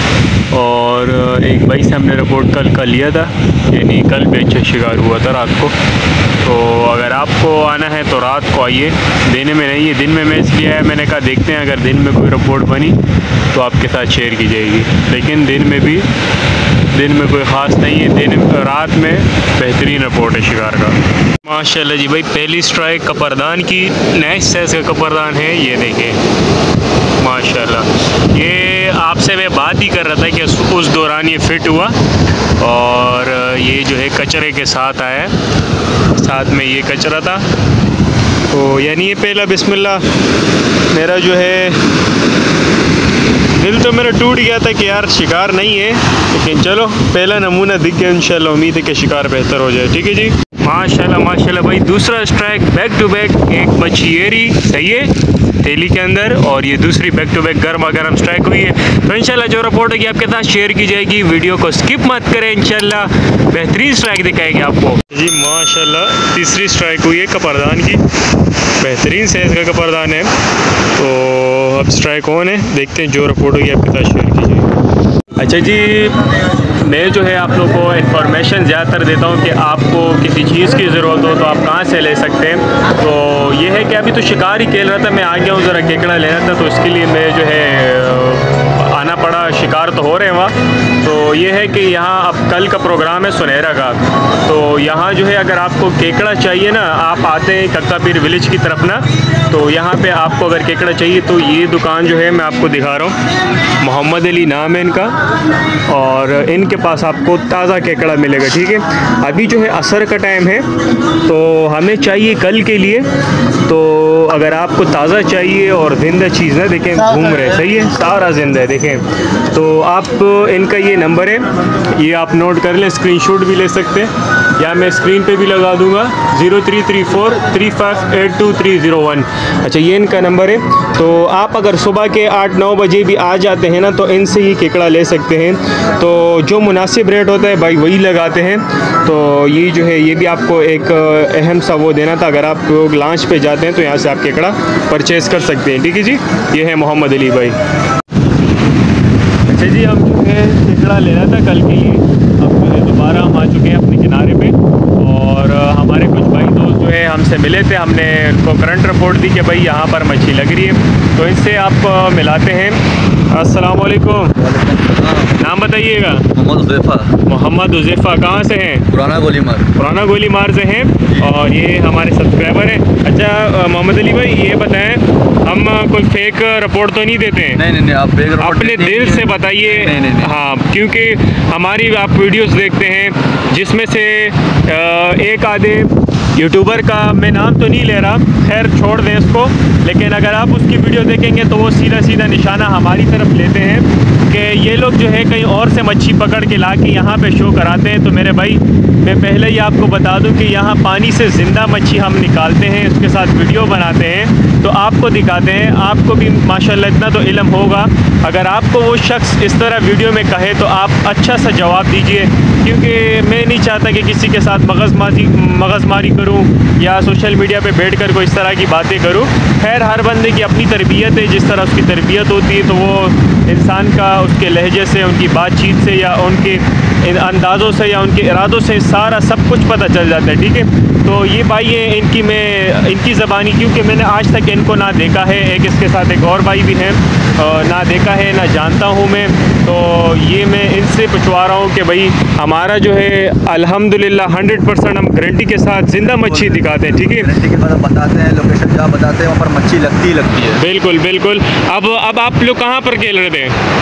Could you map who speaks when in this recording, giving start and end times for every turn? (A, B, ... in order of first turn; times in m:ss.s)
0:00.5-0:05.7 A
0:06.4-0:13.0 A
0:13.5-0:16.1 A
0:16.9-0:26.2 A
0:27.2-0:32.0 A
0:32.6-0:35.3 A
0:36.1-0:37.4 A
0:38.5-0:40.0 A
0:40.9-0:41.8 A
0:43.6-1:08.0 A
1:08.8-1:10.3 A
1:11.0-1:14.7 A
1:15.4-1:16.2 A
1:16.8-1:43.1 A
1:43.8-1:45.1 A
1:45.9-1:50.6 A
1:51.2-1:53.1 A
1:53.6-2:27.6 A
2:29.4-2:44.4 A
2:44.4-2:45.4 B
2:45.4-2:46.3 A
2:46.3-2:47.1 B
2:47.2-2:48.9 A
2:48.9-2:49.7 B
2:49.8-2:57.6 A
2:57.5-3:00.3 B
2:58.4-4:07.3 A
4:06.0-4:10.6 B
4:10.6-4:13.6 A